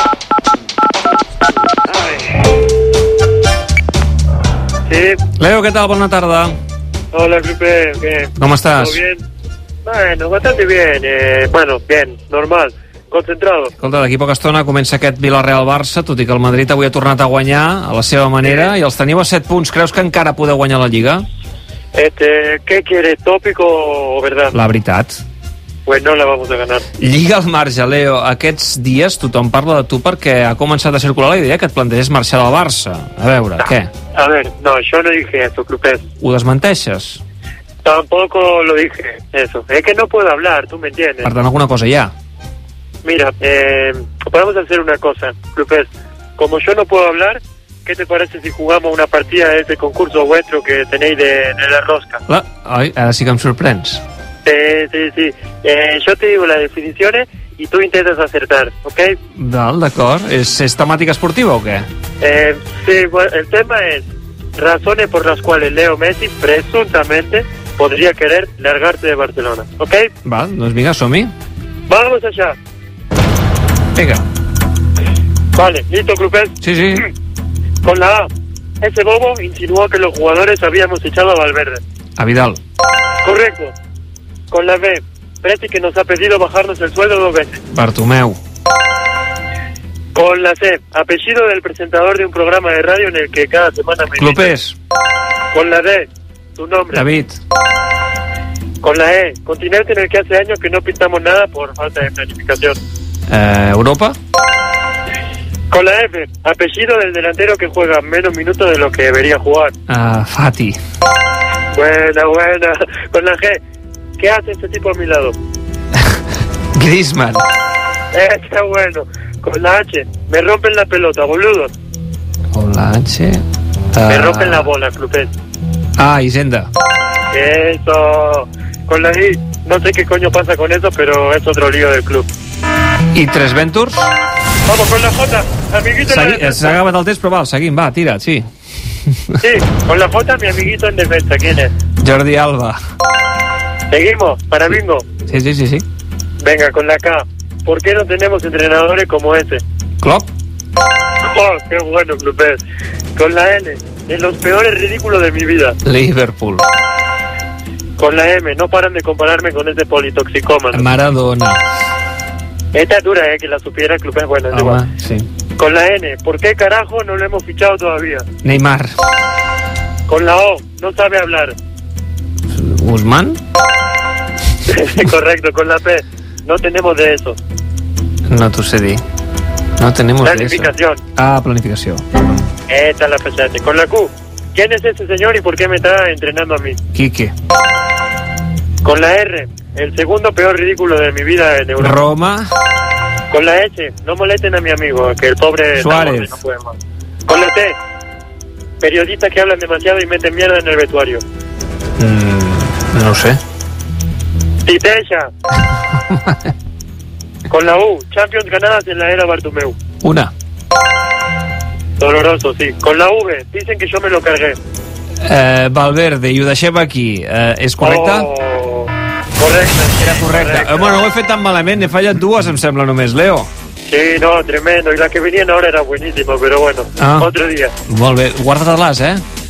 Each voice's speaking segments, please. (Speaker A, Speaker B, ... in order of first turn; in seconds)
Speaker A: 4.9-5.2, 7.1-9.2, 9.8-13.7, 18.4-18.7, 21.9-24.6, 25.9-26.9, 33.6-36.0, 37.8-41.3, 43.0-52.2, 54.5-59.2, 62.2-70.1, 71.9-72.6, 75.5-76.6, 77.8-78.3, 78.8-81.8, 83.2-83.7, 84.5-87.6, 90.2-94.5, 95.5-97.1, 98.8-102.8, 105.7-109.7, 111.7-113.6, 114.2-115.3, 118.1-121.7, 124.1-125.3, 127.3-132.3, 134.7-136.8, 139.4-141.7, 143.9-145.1, 146.4-149.6, 151.2-152.6, 153.2-155.8, 158.0-160.9, 162.7-164.8, 165.6-168.2, 170.1-171.6, 174.7-177.4, 180.2-181.0, 182.7-186.8, 188.8-192.0, 193.3-196.8, 197.3-197.8, 198.8-201.2, 204.7-205.3, 207.5-209.8, 212.0-214.6, 217.8-221.0, 223.9-227.7
Speaker B: 5.4-6.5, 8.4-9.0, 13.8-21.2, 24.5-25.2, 27.0-33.9, 36.2-37.2, 41.2-42.1, 52.3-54.0, 59.4-61.9, 70.2-71.3, 74.0-74.2, 76.6-77.1, 82.2-82.6, 87.7-88.4, 94.2-94.8, 96.9-97.4, 103.3-104.2, 109.9-110.8, 116.8-117.5, 122.5-124.7, 126.0-126.7, 133.1-134.1, 136.1-138.4, 139.1-139.4, 142.0-142.8, 145.3-145.8, 150.0-150.3, 155.8-156.7, 160.7-161.6, 164.5-165.3, 168.4-168.9, 172.5-173.4, 178.3-179.0, 179.8-182.0, 186.9-187.3, 191.8-192.5, 195.8-196.3, 202.0-203.4, 210.0-210.3, 215.2-218.3, 220.0-223.5, 227.0-227.3, 227.9-229.2